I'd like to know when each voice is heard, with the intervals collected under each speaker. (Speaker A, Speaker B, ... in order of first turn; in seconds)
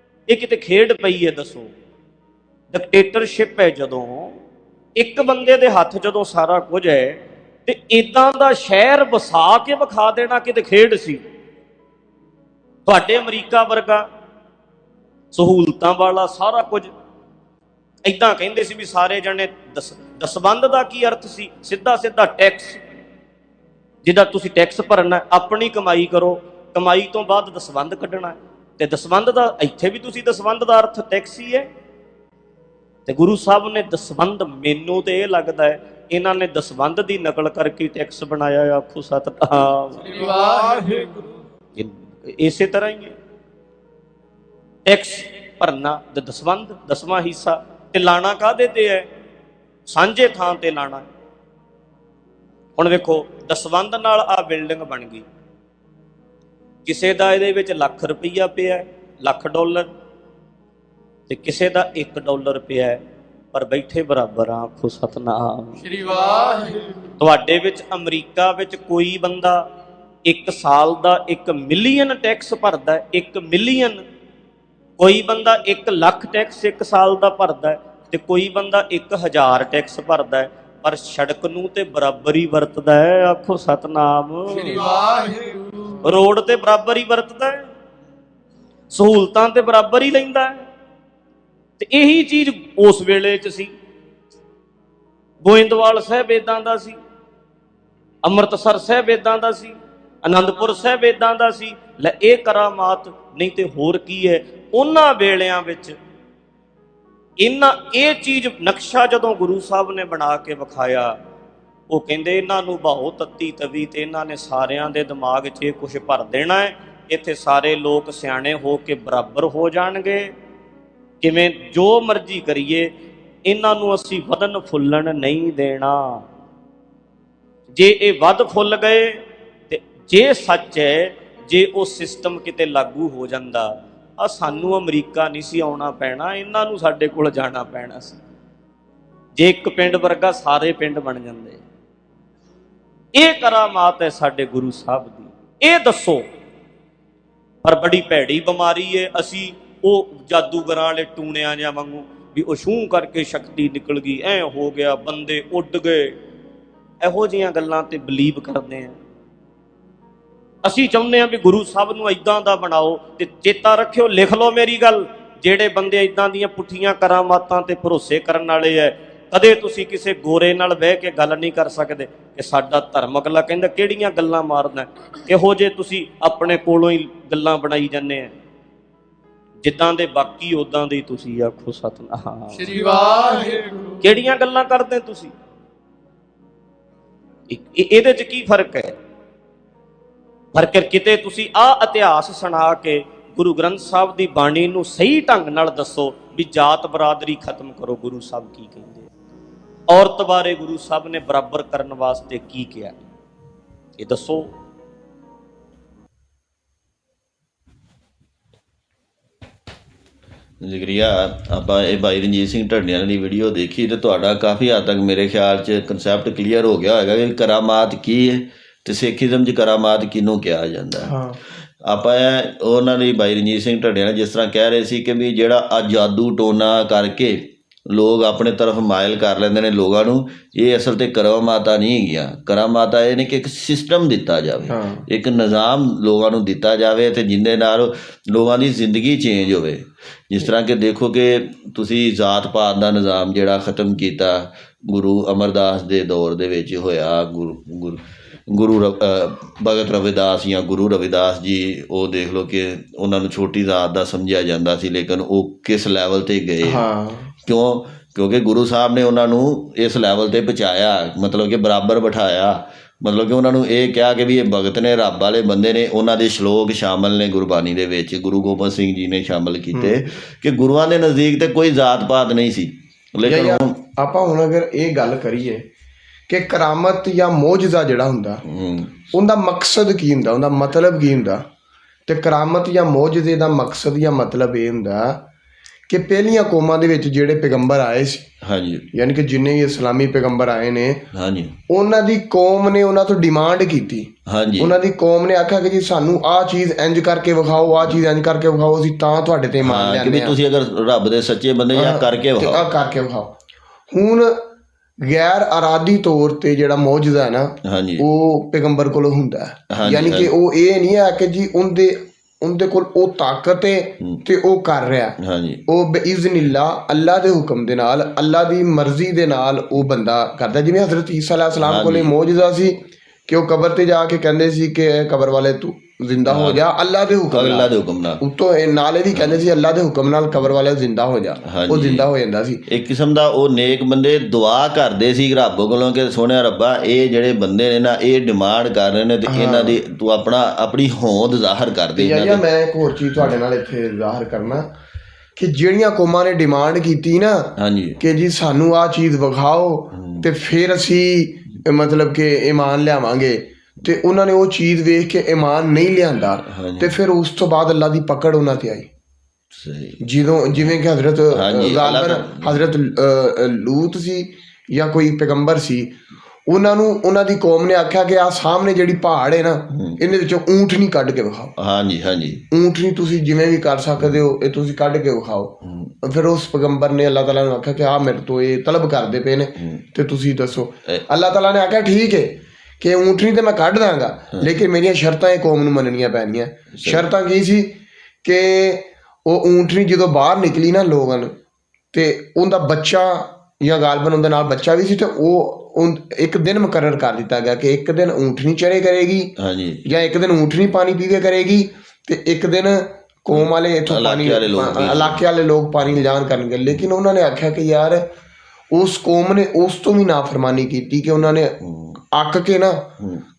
Speaker A: 0.3-1.7, 2.7-4.4, 5.0-11.2, 12.8-14.1, 15.3-16.9, 18.0-22.8, 24.0-31.7, 33.0-40.5, 41.8-43.1, 44.8-49.1, 49.9-51.1, 52.8-55.2, 56.8-59.9, 61.3-63.0, 63.5-65.9, 67.2-69.6, 70.2-74.0, 75.0-84.9, 86.0-87.7, 88.9-90.7, 91.8-93.7, 95.4-97.0, 98.2-106.0, 107.4-111.2, 111.9-120.3, 121.2-122.9, 123.5-126.2, 127.7-138.2, 139.3-141.6, 143.1-146.2, 147.6-156.2, 157.0-159.0, 160.6-178.3, 179.6-183.0, 184.0-185.3, 187.5-188.9, 190.5-199.1, 199.9-203.0, 204.0-204.5
Speaker B: 40.3-41.2, 65.9-66.9, 84.8-85.6, 182.8-183.9
Speaker C: 210.6-221.2, 221.8-256.8, 257.4-273.8, 278.4-279.0, 288.4-288.9, 291.1-291.6, 294.3-294.7, 299.6-302.6, 307.6-308.1, 309.7-310.3, 315.2-315.6, 321.6-322.1, 326.3-326.6, 327.3-328.2, 331.4-332.1, 332.7-342.4, 347.6-348.0, 349.9-350.3, 356.5-357.0, 359.5-360.0, 361.3-362.6, 369.7-370.0, 371.6-372.4, 375.6-375.9, 379.6-379.8, 386.7-387.1, 399.4-399.9, 403.3-405.2, 411.6-412.0
Speaker D: 221.0-221.4, 234.7-235.0, 256.6-257.3, 273.2-275.6, 276.3-278.4, 279.1-281.4, 282.1-285.2, 285.9-288.2, 288.9-291.0, 291.7-300.4, 301.7-303.3, 303.9-304.3, 305.0-332.6, 339.3-339.8, 341.9-344.6, 345.4-358.9, 360.0-365.9, 366.5-371.5, 372.5-387.7, 388.2-391.3, 391.9-399.3, 399.9-408.0, 408.7-411.5, 412.1-412.9